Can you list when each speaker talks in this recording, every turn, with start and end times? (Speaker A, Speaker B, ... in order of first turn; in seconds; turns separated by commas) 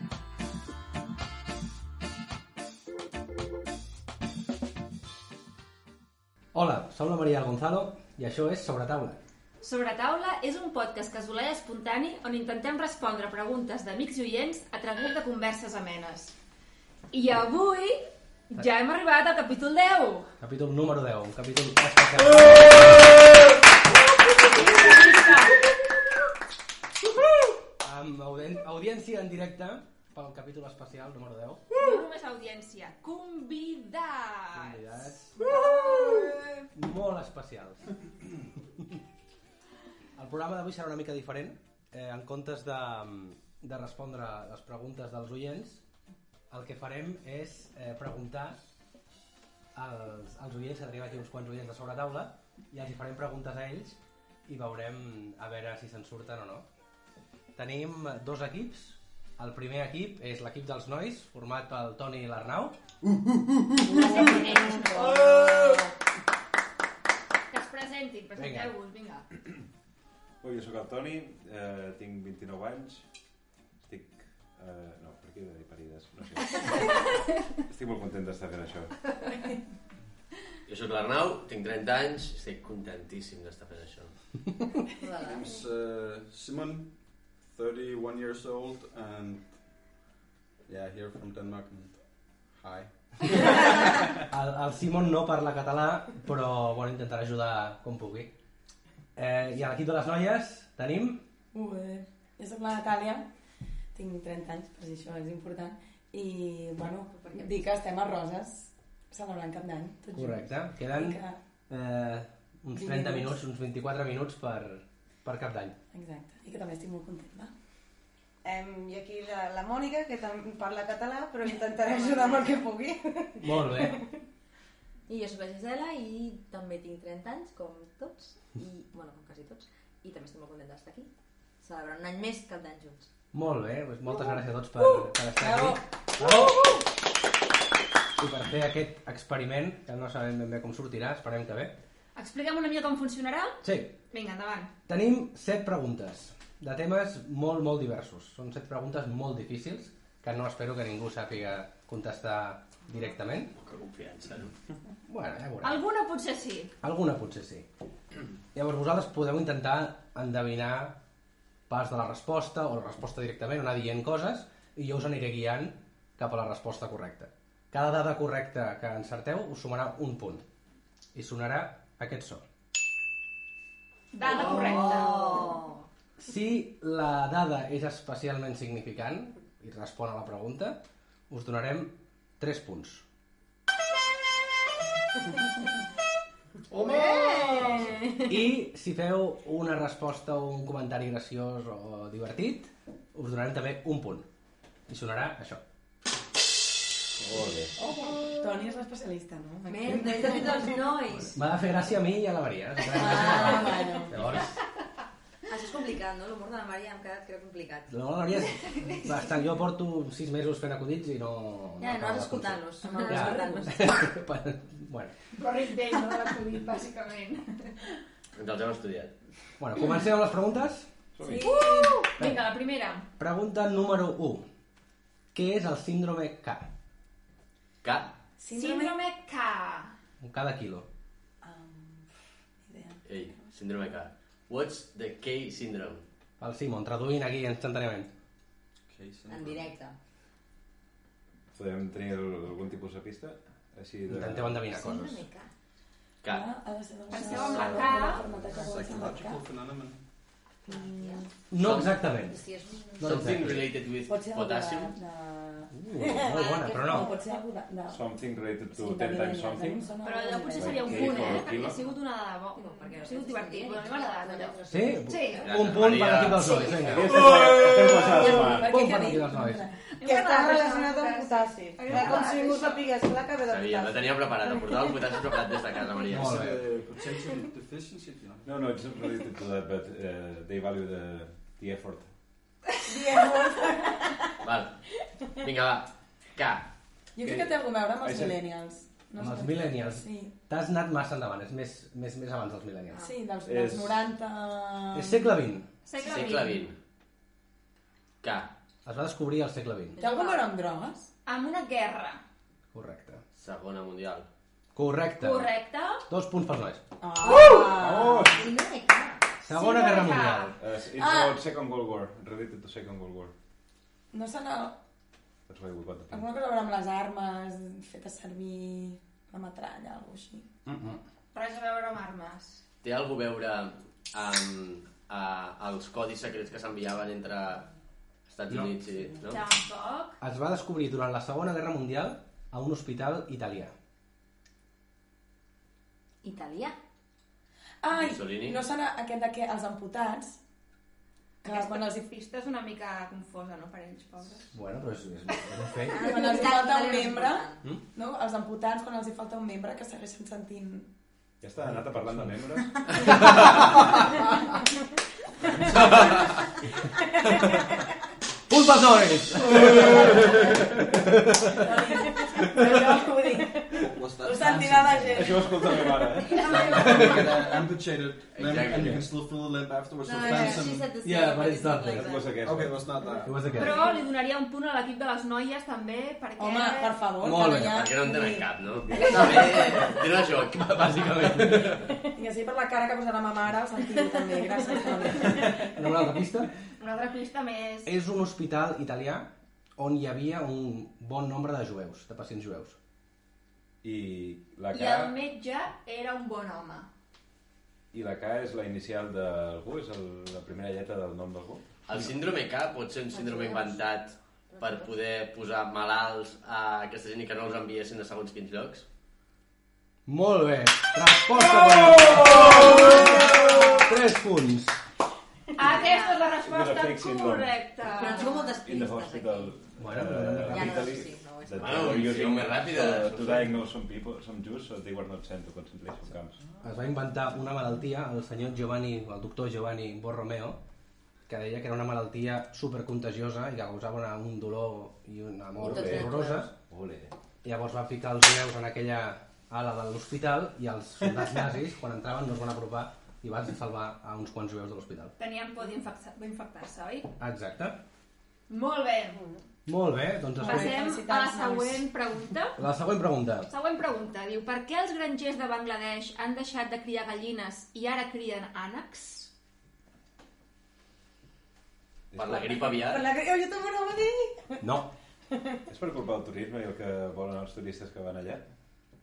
Speaker A: 6.5-9.2, Speaker B: 9.6-16.4, Speaker B: 17.1-20.3, Speaker A: 20.4-23.2, Speaker B: 24.3-25.6, Speaker A: 27.8-31.7, Speaker B: 31.8-36.3, Speaker A: 34.5-35.5, Speaker A: 36.7-39.0, Speaker A: 40.2-45.8, Speaker A: 46.5-48.7, Speaker A: 49.8-56.7, Speaker A: 57.5-62.8, Speaker C: 63.9-65.5, Speaker B: 63.9-65.8, Speaker D: 64.1-65.3, Speaker B: 67.5-69.3, Speaker A: 68.4-68.7, Speaker E: 70.4-73.0, Speaker E: 73.8-77.1, Speaker E: 77.7-78.9, Speaker F: 80.7-84.1, Speaker G: 85.0-85.7, Speaker H: 85.2-86.9, Speaker H: 87.5-89.5, Speaker H: 90.7-92.0, Speaker H: 92.6-93.6, Speaker A: 93.4-98.3, Speaker A: 99.2-101.2, Speaker C: 101.5-103.3, Speaker C: 103.9-111.4, Speaker G: 107.1-107.7, Speaker A: 110.1-115.8, Speaker C: 112.7-113.3, Speaker C: 115.9-117.5, Speaker D: 118.4-124.1, Speaker G: 121.9-122.5, Speaker A: 123.4-124.0, Speaker G: 125.1-131.1, Speaker G: 131.6-133.1, Speaker A: 133.3-136.6, Speaker C: 135.3-136.5, Speaker B: 136.3-136.7, Speaker A: 138.2-141.8, Speaker B: 142.2-144.7, Speaker A: 143.6-144.0, Speaker A: 144.9-153.6, Speaker F: 153.6-154.5, Speaker A: 155.1-155.8, Speaker B: 155.6-156.7, Speaker A: 156.8-157.7, Speaker A: 158.5-161.0, Speaker A: 161.7-170.5, Speaker A: 171.1-172.4, Speaker B: 174.1-175.5, Speaker G: 174.2-175.8, Speaker A: 176.2-183.1, Speaker G: 186.7-188.3, Speaker A: 188.3-194.3, Speaker A: 194.9-195.6, Speaker E: 197.2-197.8, Speaker C: 197.8-200.8, Speaker G: 199.7-201.4, Speaker A: 201.3-204.6, Speaker C: 202.9-204.1, Speaker G: 203.2-203.9, Speaker G: 205.5-207.9, Speaker A: 207.9-215.2, Speaker B: 208.6-209.2, Speaker G: 211.8-213.9, Speaker C: 212.9-213.7, Speaker B: 215.4-217.9, Speaker F: 218.3-219.1, Speaker A: 219.6-220.9, Speaker E: 221.2-221.6, Speaker C: 221.2-222.0, Speaker B: 221.4-223.1, Speaker A: 222.2-222.5, Speaker A: 223.2-224.5, Speaker A: 225.3-226.7, Speaker F: 227.8-228.2, Speaker C: 228.4-228.9, Speaker B: 228.5-230.0, Speaker A: 230.2-230.9, Speaker C: 231.4-232.1, Speaker C: 232.7-233.4, Speaker F: 233.1-236.1, Speaker A: 236.4-238.1, Speaker H: 238.9-239.8, Speaker G: 239.3-240.0, Speaker E: 241.5-244.6, Speaker A: 244.1-245.3, Speaker G: 244.7-245.5, Speaker C: 246.3-249.4, Speaker B: 247.1-248.2, Speaker H: 247.3-250.0, Speaker C: 250.7-251.2, Speaker G: 250.7-253.2, Speaker A: 251.5-252.4, Speaker F: 251.6-251.9, Speaker A: 253.0-253.8, Speaker F: 253.0-255.0, Speaker C: 254.1-258.1, Speaker A: 255.7-257.1, Speaker G: 256.0-257.4, Speaker E: 257.9-259.9, Speaker C: 258.7-261.4, Speaker B: 260.0-265.4, Speaker E: 260.5-261.8, Speaker G: 262.6-265.7, Speaker A: 264.7-267.1, Speaker F: 265.4-267.0, Speaker G: 266.4-266.8, Speaker E: 266.8-268.8, Speaker C: 267.4-269.8, Speaker A: 268.4-269.7, Speaker B: 269.9-272.8, Speaker D: 270.0-275.3, Speaker G: 271.9-272.6, Speaker F: 273.5-276.4, Speaker A: 276.1-276.7, Speaker H: 276.1-278.5, Speaker E: 278.4-282.1, Speaker C: 282.9-284.2, Speaker F: 284.4-284.8, Speaker F: 285.3-286.7, Speaker C: 287.2-290.3, Speaker E: 287.2-288.4, Speaker A: 289.2-293.1, Speaker C: 293.0-295.4, Speaker E: 293.4-294.1, Speaker A: 294.9-295.7, Speaker B: 295.9-296.7, Speaker F: 296.0-296.8, Speaker F: 298.2-298.5, Speaker A: 298.9-300.0, Speaker G: 300.0-300.5, Speaker C: 300.0-301.1, Speaker B: 301.3-302.2, Speaker A: 302.7-303.2, Speaker F: 303.3-304.3, Speaker A: 304.7-305.5, Speaker B: 305.2-306.0, Speaker A: 306.1-306.8, Speaker C: 307.0-308.4, Speaker G: 307.2-309.3, Speaker E: 307.2-308.5, Speaker A: 309.4-310.6, Speaker B: 309.5-310.5, Speaker E: 310.6-313.3, Speaker C: 311.0-311.4, Speaker C: 314.1-314.8, Speaker E: 315.5-316.3, Speaker C: 316.1-320.5, Speaker A: 320.7-321.0, Speaker B: 321.3-322.6, Speaker F: 322.8-327.7, Speaker F: 328.3-329.4, Speaker B: 329.2-330.2, Speaker A: 330.2-333.7, Speaker G: 336.2-336.8, Speaker C: 337.8-340.4, Speaker F: 337.9-338.6, Speaker C: 341.4-342.1, Speaker B: 341.4-344.5, Speaker A: 344.5-346.1, Speaker G: 345.9-347.6, Speaker C: 345.9-350.9, Speaker E: 351.4-353.2, Speaker A: 353.0-354.2, Speaker A: 355.6-356.3, Speaker C: 356.9-357.6, Speaker A: 358.5-361.7, Speaker C: 359.5-360.6, Speaker C: 361.5-366.6, Speaker A: 362.4-362.7, Speaker H: 363.9-365.5, Speaker E: 365.1-366.7, Speaker H: 366.4-370.9, Speaker A: 366.7-367.3, Speaker F: 368.4-369.0, Speaker A: 368.7-369.0, Speaker G: 370.0-372.4, Speaker A: 371.0-372.1, Speaker E: 371.9-372.8, Speaker H: 372.4-373.4, Speaker A: 373.2-373.8, Speaker B: 373.6-377.0, Speaker C: 376.4-378.5, Speaker A: 377.2-377.9, Speaker F: 377.5-381.8, Speaker A: 379.0-379.8, Speaker A: 380.4-382.0, Speaker C: 382.1-385.7, Speaker A: 385.5-386.5, Speaker B: 386.8-387.9, Speaker A: 387.9-392.8, Speaker E: 393.8-395.2, Speaker B: 394.7-396.9, Speaker E: 397.9-401.6, Speaker F: 401.9-408.9, Speaker G: 403.1-403.8, Speaker G: 404.5-404.9, Speaker A: 410.1-414.8, Speaker E: 411.7-412.9, Speaker G: 412.5-413.8, Speaker B: 415.6-418.5, Speaker G: 415.6-416.3, Speaker E: 416.4-426.4, Speaker G: 417.8-419.6, Speaker A: 419.8-421.0, Speaker G: 420.4-422.1, Speaker F: 421.6-423.5, Speaker A: 426.6-430.6, Speaker A: 431.3-436.5, Speaker E: 435.6-437.1, Speaker G: 435.6-436.5, Speaker A: 437.4-445.1, Speaker B: 445.2-447.1, Speaker A: 447.2-447.8, Speaker B: 448.5-449.2, Speaker A: 449.7-450.8, Speaker C: 450.4-451.9, Speaker B: 450.4-452.6, Speaker A: 452.6-453.5, Speaker B: 453.5-459.3, Speaker E: 462.1-462.4, Speaker F: 462.1-463.1, Speaker D: 462.8-464.6, Speaker A: 464.6-464.9, Speaker E: 465.7-468.4